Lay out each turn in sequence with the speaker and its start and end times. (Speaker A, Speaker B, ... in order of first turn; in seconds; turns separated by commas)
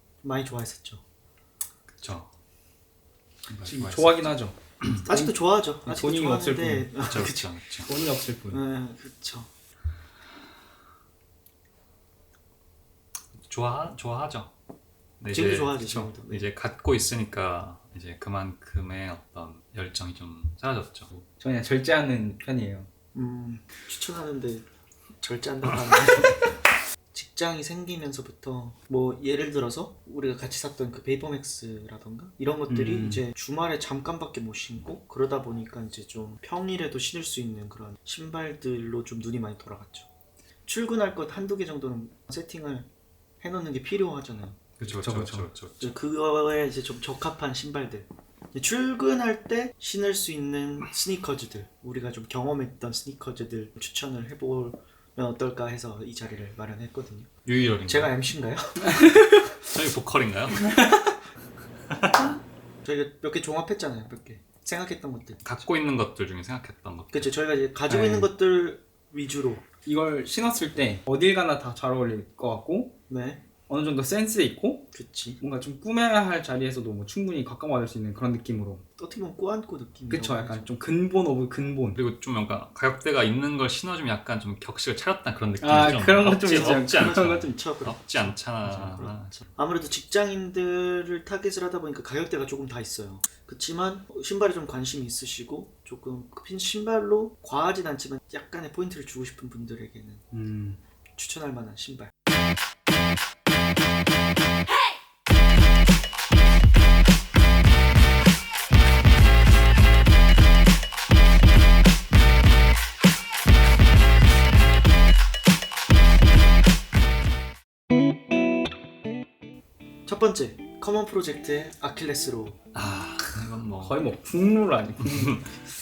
Speaker A: 0.2-1.0, Speaker B: 2.0-2.3, Speaker B: 3.5-5.0, Speaker C: 3.6-6.9, Speaker A: 5.0-7.5, Speaker B: 7.0-7.9, Speaker C: 7.8-8.6, Speaker A: 8.5-9.5, Speaker B: 13.4-14.5, Speaker B: 15.2-21.2, Speaker A: 15.3-16.5, Speaker C: 21.4-22.9, Speaker A: 23.1-24.6, Speaker A: 25.2-26.6, Speaker A: 27.1-40.1, Speaker C: 32.7-33.2, Speaker A: 40.6-42.9, Speaker A: 43.4-44.8, Speaker B: 44.8-45.9, Speaker C: 44.9-45.5, Speaker A: 45.8-57.3, Speaker B: 57.4-58.1, Speaker A: 57.8-59.4, Speaker C: 58.9-59.5, Speaker B: 59.6-60.7, Speaker C: 60.6-61.1, Speaker B: 61.9-62.4, Speaker A: 62.8-65.4, Speaker B: 65.4-67.3, Speaker A: 67.1-69.6, Speaker C: 67.9-68.3, Speaker C: 69.8-72.9, Speaker A: 73.1-73.4, Speaker C: 73.7-74.9, Speaker A: 74.9-75.4, Speaker C: 75.4-78.8, Speaker A: 79.0-80.7, Speaker C: 80.1-82.0, Speaker B: 81.9-89.5, Speaker C: 85.6-87.6, Speaker A: 86.7-100.2, Speaker C: 88.6-89.0, Speaker C: 100.3-100.8, Speaker A: 101.2-102.1, Speaker A: 120.0-122.6, Speaker B: 122.7-124.0, Speaker C: 123.8-125.5, Speaker B: 125.0-125.4